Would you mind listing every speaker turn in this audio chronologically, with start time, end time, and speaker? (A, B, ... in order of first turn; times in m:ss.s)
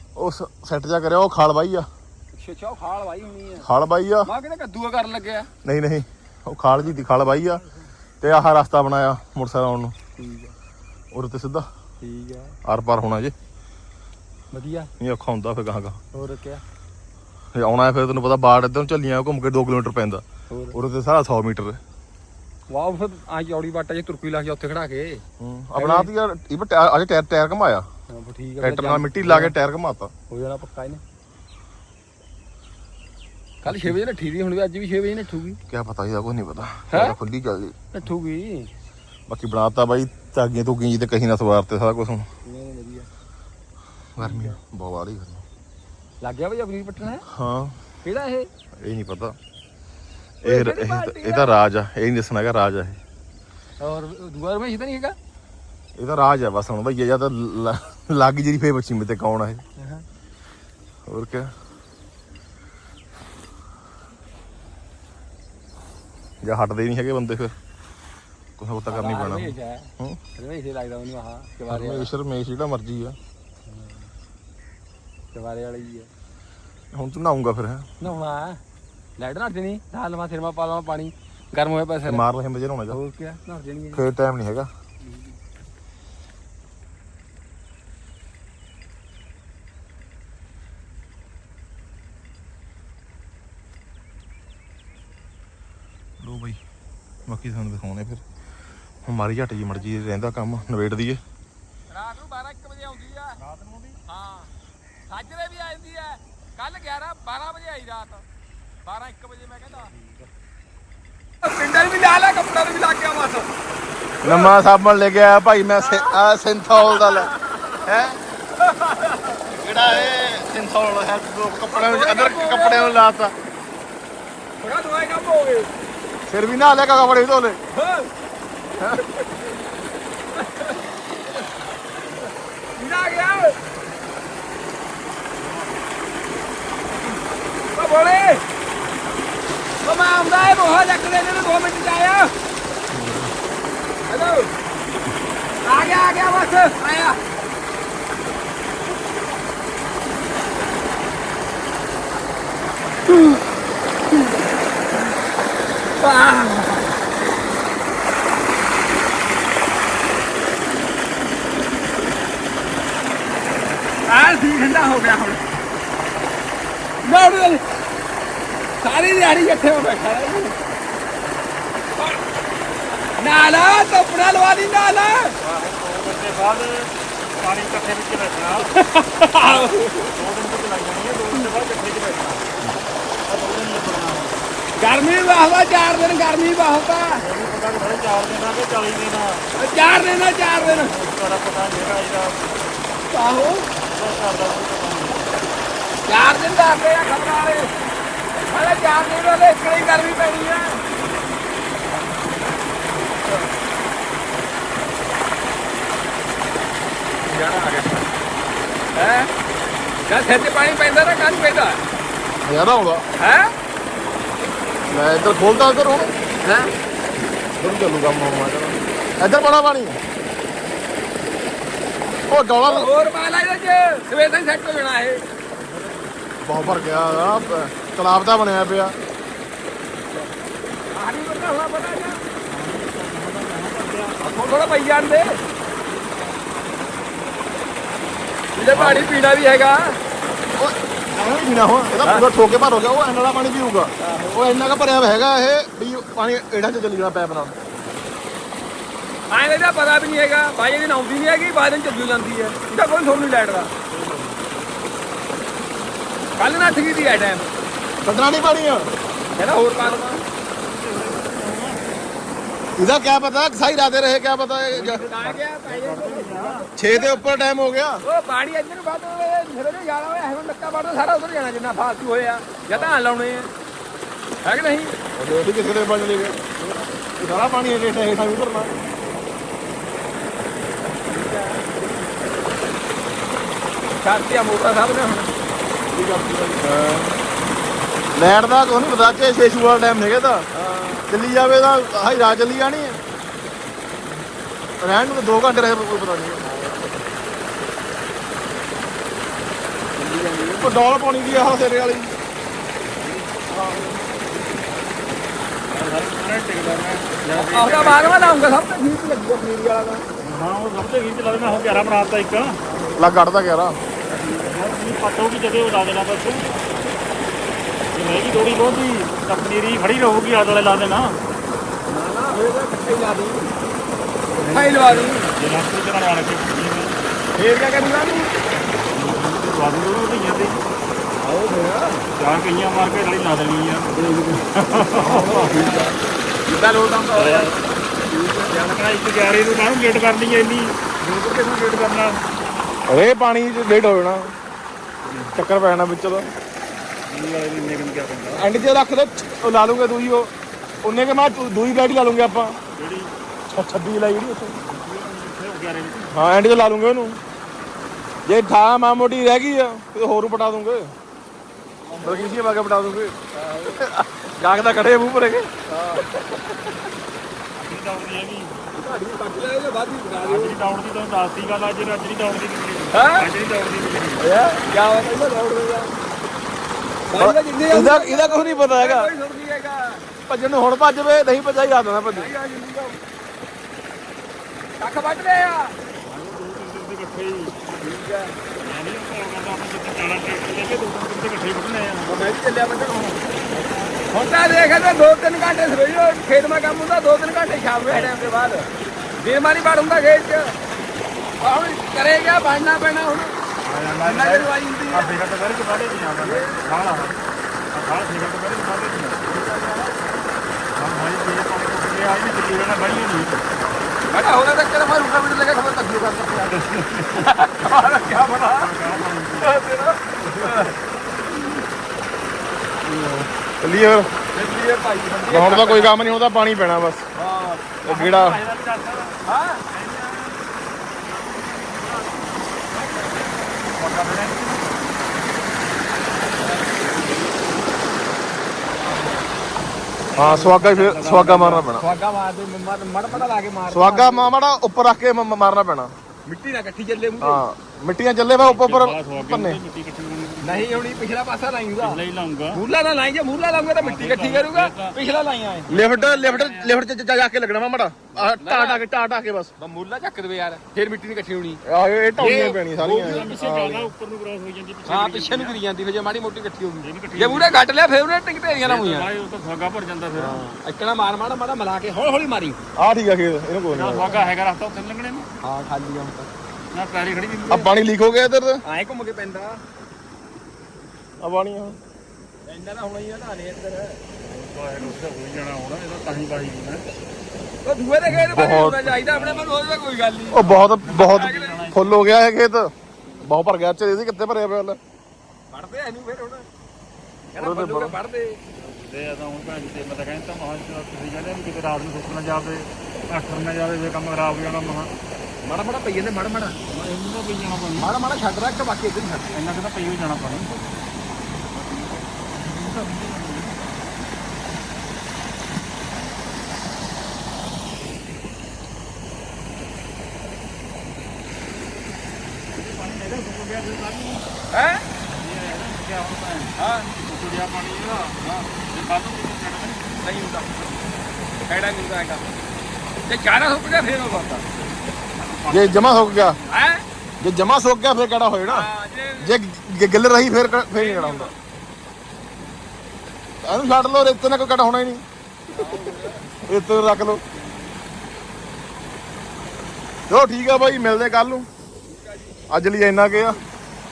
0:00.2-0:01.9 A
0:02.3-0:03.7 B
0:03.6-0:04.3 A
0:04.2-0:05.5 B
0:05.6-0:07.6 A
0:08.2-0:10.0 A
0:10.2-0:10.5 B
0:11.1-0:11.7 A
0:12.0-0:12.5 B
0:12.6-0:13.3 A
0:14.5-0:14.9 B
0:15.0-0:16.0 A
0:16.1-0:16.6 B
0:17.5-0:21.8 A
0:20.5-0:20.8 B
0:22.7-0:25.2 B
0:25.4-0:27.9 A
0:25.8-0:26.1 B
0:28.1-0:29.5 B
0:28.6-0:30.1 A
0:30.3-0:31.0 B
0:33.6-0:35.6 B
0:33.7-0:34.0 A
0:35.7-0:37.8 A
0:36.9-0:37.2 B
0:37.9-0:38.7 B
0:39.3-0:42.3 A
0:42.4-0:43.1 B
0:44.2-0:45.4 A
0:44.2-0:44.6 B
0:46.2-0:47.2 B
0:47.2-0:47.8 A
0:48.0-0:48.5 B
0:48.8-0:49.4 A
0:50.4-0:53.0 A
0:50.4-0:51.5 B
0:53.8-0:55.2 B
0:56.0-0:59.6 A
0:59.8-1:00.0 B
1:01.1-1:01.5 A
1:06.4-1:07.5 A
1:08.6-1:10.2 A
1:08.9-1:12.1 B
1:11.7-1:13.2 A
1:13.7-1:14.1 B
1:15.3-1:16.1 B
1:16.9-1:17.9 A
1:18.0-1:18.6 B
1:19.2-1:22.2 B
1:22.0-1:23.0 A
1:22.9-1:24.0 B
1:23.9-1:24.7 A
1:25.0-1:25.3 B
1:36.2-1:36.6 A
1:37.2-1:38.2 A
1:39.0-1:41.2 A
1:41.9-1:43.4 B
1:43.4-1:44.0 C
1:44.1-1:44.5 B
1:45.1-1:48.2 B
1:48.8-1:49.9 B
1:49.9-1:50.3 C
1:51.4-1:53.5 B
1:54.2-1:58.2 A
1:54.2-1:54.5 B
1:55.8-1:56.2 B
1:56.8-1:58.0 B
1:58.6-2:00.1 B
1:59.5-2:03.3 A
2:01.7-2:03.0 B
2:04.6-2:05.7 B
2:06.3-2:07.6 A
2:07.7-2:08.1 B
2:08.8-2:09.6 B
2:10.3-2:11.5 B
2:12.2-2:13.6 B
2:17.7-2:18.4 B
2:19.8-2:22.3 B
2:22.9-2:23.3 A
2:24.1-2:24.5 B
2:25.6-2:27.2 B
2:33.1-2:33.4 B
2:36.0-2:37.0 B
2:44.0-2:45.5 B
2:47.0-2:47.6 B
2:48.8-2:50.6 B
2:51.9-2:52.2 B
2:53.2-2:55.4 B
2:55.4-2:58.7 C
2:58.6-3:00.2 B
2:59.4-3:02.5 C
3:03.3-3:04.4 C
3:04.8-3:07.2 B
3:07.2-3:09.4 C
3:09.6-3:10.9 B
3:10.6-3:12.5 C
3:13.1-3:13.7 B
3:13.8-3:15.3 C
3:16.0-3:17.7 B
3:18.3-3:20.8 B
3:27.2-3:28.1 B
3:29.0-3:29.3 B
3:30.0-3:31.8 B
3:32.4-3:33.0 A
3:33.2-3:33.5 B
3:34.9-3:36.1 A
3:36.4-3:36.7 B
3:37.6-3:40.0 A
3:42.3-3:42.9 A
3:42.6-3:45.2 B
3:45.6-3:46.1 C
3:46.4-3:49.0 A
3:46.7-3:47.5 C
3:50.9-3:52.2 B
3:52.5-3:54.2 C
3:54.2-3:55.4 B
3:56.1-3:56.4 C
3:58.5-4:00.0 B
3:58.7-3:59.1 A
4:00.6-4:07.6 A
4:02.0-4:02.3 B
4:04.0-4:04.5 B
4:09.3-4:13.7 B
4:13.9-4:14.4 C
4:16.4-4:17.5 B
4:18.0-4:18.9 A
4:19.4-4:20.2 B
4:19.8-4:22.0 C
4:22.8-4:25.0 A
4:24.7-4:26.6 C
4:24.9-4:27.2 B
4:26.8-4:28.0 A
4:28.0-4:33.5 B
4:34.4-4:35.0 B
4:35.2-4:36.4 A
4:36.6-4:36.9 B
4:37.2-4:38.8 A
4:40.8-4:42.3 B
4:44.0-4:45.3 B
4:45.9-4:47.1 A
4:48.2-4:50.5 A
4:50.5-4:51.1 B
4:51.1-4:53.0 A
4:54.8-4:56.4 A
4:56.4-4:57.0 B
5:00.0-5:00.8 B
5:00.6-5:02.1 A
5:03.7-5:04.0 B
5:05.7-5:08.4 C
5:07.2-5:10.1 B
5:10.2-5:12.6 C
5:12.6-5:13.0 B
5:13.0-5:13.8 A
5:14.1-5:14.6 B
5:14.2-5:16.5 C
5:17.9-5:21.2 C
5:21.8-5:23.5 B
5:24.3-5:27.0 C
5:24.4-5:25.3 B
5:27.4-5:28.4 B
5:28.7-5:30.6 C
5:31.2-5:32.1 B
5:32.2-5:35.7 C
5:35.0-5:38.9 B
5:35.0-5:35.7 A
5:37.2-5:37.5 C
5:38.5-5:40.8 C
5:41.0-5:41.6 B
5:41.5-5:42.2 C
5:42.9-5:44.3 A
5:45.0-5:45.3 C
5:45.3-5:46.3 A
5:47.0-5:48.5 C
5:48.3-5:50.3 A
5:50.8-5:52.6 A
5:52.8-5:53.1 C
5:53.5-5:54.6 A
5:54.6-5:56.1 C
5:56.1-5:57.2 A
5:58.2-6:00.9 A
6:01.8-6:02.3 B
6:02.0-6:05.5 A
6:03.3-6:03.8 B
6:05.7-6:06.7 B
6:07.6-6:08.6 C
6:08.7-6:10.6 B
6:10.2-6:14.2 C
6:12.9-6:13.3 B
6:14.2-6:14.6 A
6:14.5-6:16.0 B
6:17.1-6:20.0 B
6:17.2-6:19.1 A
6:20.2-6:22.3 A
6:22.1-6:23.0 B
6:24.8-6:25.8 B
6:26.0-6:27.6 C
6:27.8-6:28.4 B
6:28.6-6:32.1 C
6:32.0-6:33.2 B
6:33.5-6:33.9 C
6:34.0-6:40.6 B
6:37.9-6:38.4 C
6:41.4-6:43.4 B
6:43.6-6:47.2 C
6:44.0-6:45.2 B
6:46.2-6:46.9 B
6:47.7-6:49.4 C
6:49.3-6:50.0 B
6:50.8-6:53.8 C
6:54.1-7:00.8 B
6:56.5-6:57.3 C
6:58.4-6:59.6 C
7:00.3-7:00.7 C
7:02.8-7:03.3 C
7:03.6-7:04.1 A
7:04.3-7:06.1 B
7:05.3-7:07.1 A
7:07.2-7:07.7 B
7:07.8-7:08.4 A
7:07.8-7:12.7 C
7:09.2-7:09.6 B
7:12.7-7:13.4 B
7:13.7-7:15.1 C
7:16.5-7:17.7 C
7:18.8-7:19.2 B
7:20.1-7:21.7 C
7:20.2-7:21.8 A
7:21.8-7:24.3 B
7:23.7-7:25.9 A
7:26.2-7:27.4 B
7:27.2-7:29.6 A
7:28.4-7:31.1 C
7:30.4-7:32.0 B
7:31.8-7:32.6 C
7:32.5-7:35.7 B
7:33.8-7:35.0 C
7:35.7-7:39.5 A
7:35.7-7:36.7 C
7:38.1-7:38.8 B
7:39.6-7:41.6 B
7:41.6-7:43.9 A
7:42.2-7:43.4 B
7:42.3-7:45.6 C
7:44.8-7:49.1 B
7:46.8-7:47.6 C
7:48.6-7:50.4 C
7:50.2-7:52.6 B
7:52.8-7:54.2 A
7:53.7-7:55.3 C
7:55.4-7:56.3 B
7:56.7-7:57.7 C
7:57.5-7:58.6 A
7:58.6-7:59.6 B
8:01.2-8:01.8 A
8:02.5-8:04.0 B
8:04.2-8:06.8 C
8:07.6-8:11.8 B
8:08.1-8:08.9 A
8:09.0-8:09.6 C
8:10.3-8:12.7 A
8:10.4-8:12.0 C
8:13.2-8:14.8 A
8:15.5-8:16.5 B
8:17.3-8:18.4 B
8:17.4-8:18.0 A
8:18.6-8:24.9 C
8:25.4-8:26.6 B
8:26.7-8:27.9 C
8:27.8-8:29.4 B
8:29.3-8:30.5 C
8:32.3-8:33.6 C
8:42.5-8:44.2 C
8:44.5-8:44.8 B
8:45.1-8:49.9 C
8:46.6-8:46.9 B
8:48.2-8:48.5 B
8:50.0-8:50.7 B
8:51.5-8:52.3 B
8:53.0-8:54.5 B
8:55.2-8:56.5 C
8:55.5-8:56.4 A
8:56.4-8:56.8 B
8:57.2-8:58.7 A
8:58.5-8:59.3 B
8:59.2-9:01.3 A
9:00.7-9:01.3 B
9:03.4-9:05.0 A
9:05.5-9:06.1 B
9:06.5-9:07.2 A
9:10.1-9:11.5 A
9:11.9-9:12.5 B
9:12.5-9:13.4 A